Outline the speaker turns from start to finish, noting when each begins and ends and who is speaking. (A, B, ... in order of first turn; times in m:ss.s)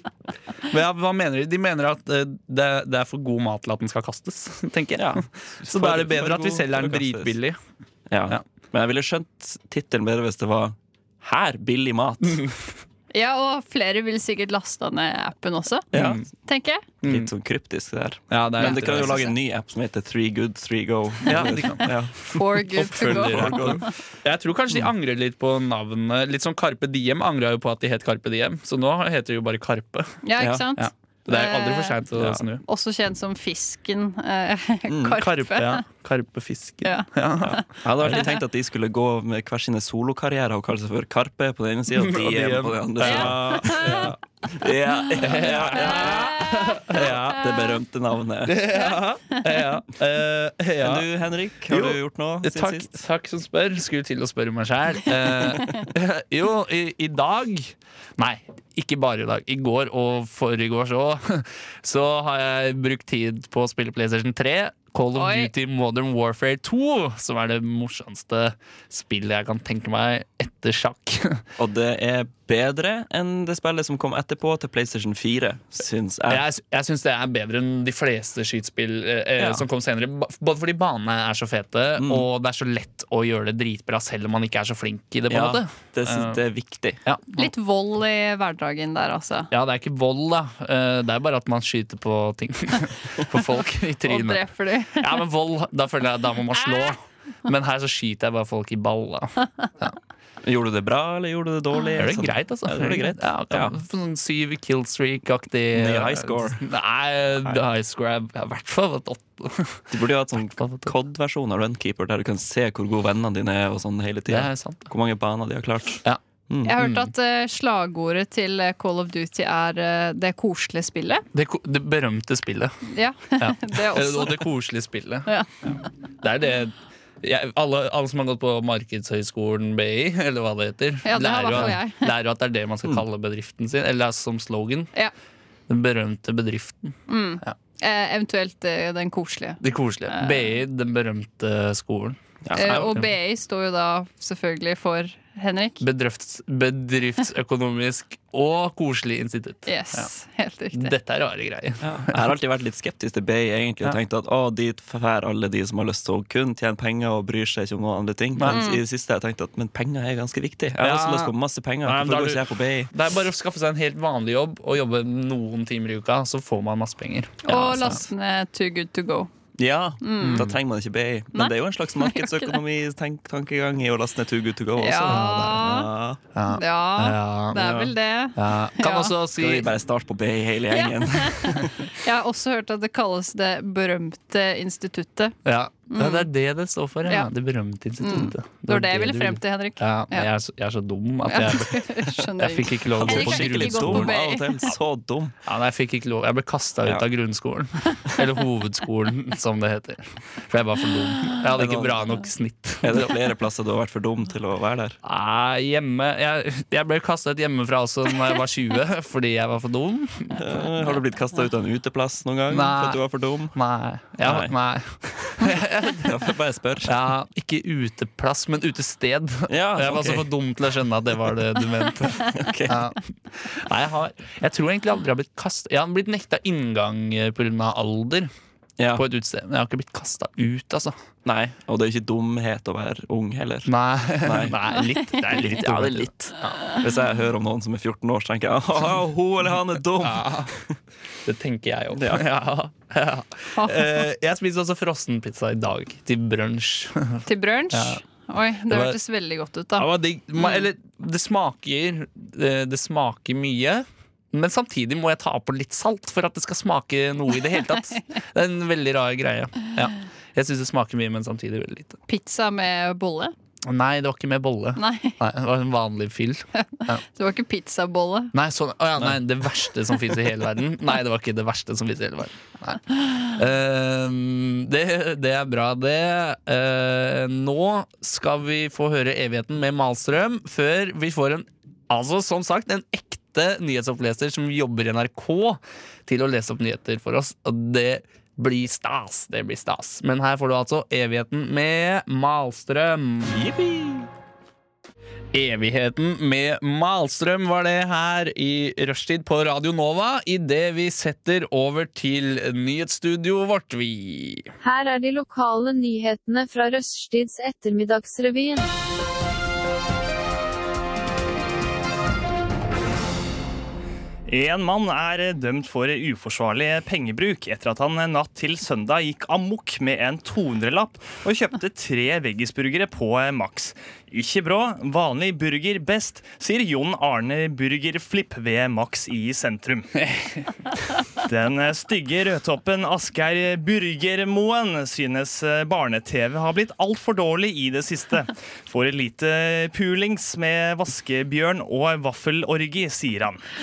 0:00.7-0:07.6 A
0:05.0-0:07.4 B
0:08.1-0:12.4 B
0:12.3-0:12.6 A
0:13.1-0:15.9 C
0:15.9-0:16.2 B
0:15.9-0:16.2 A
0:16.4-0:16.8 C
0:17.0-0:17.3 A
0:17.0-0:23.9 B
0:18.3-0:19.3 A
0:18.6-0:19.3 C
0:21.3-0:30.2 A
0:22.3-0:23.9 C
0:30.2-0:32.0 C
0:30.4-0:30.7 B
0:30.8-0:32.6 A
0:32.2-0:32.4 B
0:32.6-0:35.8 C
0:34.9-0:35.2 B
0:35.2-0:38.2 A
0:36.8-0:38.3 C
0:37.4-0:48.8 B
0:42.0-0:44.2 A
0:43.0-0:44.1 C
0:45.2-0:47.5 A
0:45.7-0:46.9 C
0:48.5-0:51.1 A
0:50.8-0:53.0 B
0:51.7-1:11.4 A
1:05.2-1:05.5 C
1:11.6-1:16.4 B
1:16.3-1:26.4 A
1:19.4-1:19.6 B
1:22.0-1:22.3 B
1:25.3-1:27.0 B
1:27.0-1:27.5 A
1:27.4-1:29.5 C
1:29.5-1:34.4 A
1:34.0-1:35.2 C
1:35.0-1:40.0 A
1:36.5-1:37.0 C
1:40.4-1:43.8 B
1:42.0-1:50.9 A
1:45.7-1:46.6 B
1:49.9-1:56.8 B
1:54.3-1:54.9 A
1:56.6-2:01.2 C
1:56.8-1:57.1 A
2:01.3-2:02.8 A
2:02.9-2:04.5 C
2:03.4-2:05.3 A
2:06.2-2:14.9 A
2:11.0-2:12.1 C
2:15.7-2:17.6 A
2:17.1-2:20.6 C
2:19.6-2:23.1 A
2:22.4-2:23.0 B
2:22.6-2:25.8 C
2:25.8-2:30.1 A
2:29.7-2:30.9 C
2:30.7-2:32.2 A
2:31.8-2:42.9 B
2:38.4-2:38.6 A
2:38.5-2:38.8 C
2:40.8-2:41.3 A
2:41.8-2:48.0 A
2:47.4-2:49.3 C
2:49.6-2:56.2 B
2:50.0-2:50.5 C
2:50.2-2:50.5 A
2:51.3-2:52.6 C
2:54.8-2:55.9 C
2:55.0-2:55.8 A
2:56.4-2:57.8 A
2:56.5-2:59.1 C
2:57.6-2:57.9 B
2:58.4-2:59.7 A
2:59.3-3:01.8 B
3:00.7-3:05.4 C
3:05.4-3:14.2 A
3:05.9-3:06.3 C
3:08.0-3:10.3 C
3:11.3-3:14.7 C
3:12.9-3:15.4 B
3:15.5-3:23.1 A
3:21.6-3:22.1 B
3:22.8-3:25.0 B
3:25.0-3:30.4 A
3:30.3-3:33.6 B
3:32.5-3:36.1 A
3:34.2-3:34.5 B
3:35.0-3:37.0 B
3:36.8-3:48.3 A
3:39.5-3:40.3 B
3:42.2-3:42.8 B
3:48.8-3:49.0 B
3:49.0-3:51.0 A
3:51.2-3:54.6 B
3:53.7-3:56.6 A
3:55.1-3:55.4 C
3:55.3-4:00.8 B
4:00.0-4:00.6 A
4:01.2-4:08.0 A
4:01.9-4:02.2 B
4:03.6-4:04.0 C
4:07.3-4:09.9 C
4:08.7-4:09.0 A
4:09.8-4:22.0 A
4:10.4-4:10.6 C
4:22.1-4:23.3 C
4:23.7-4:27.0 A
4:24.8-4:25.2 C
4:26.6-4:28.3 C
4:28.3-4:53.4 A
4:53.3-4:54.1 B
4:55.3-5:04.5 A
5:04.6-5:08.7 D
5:14.3-5:29.9 E
5:30.0-5:30.4 A
5:31.2-5:43.4 E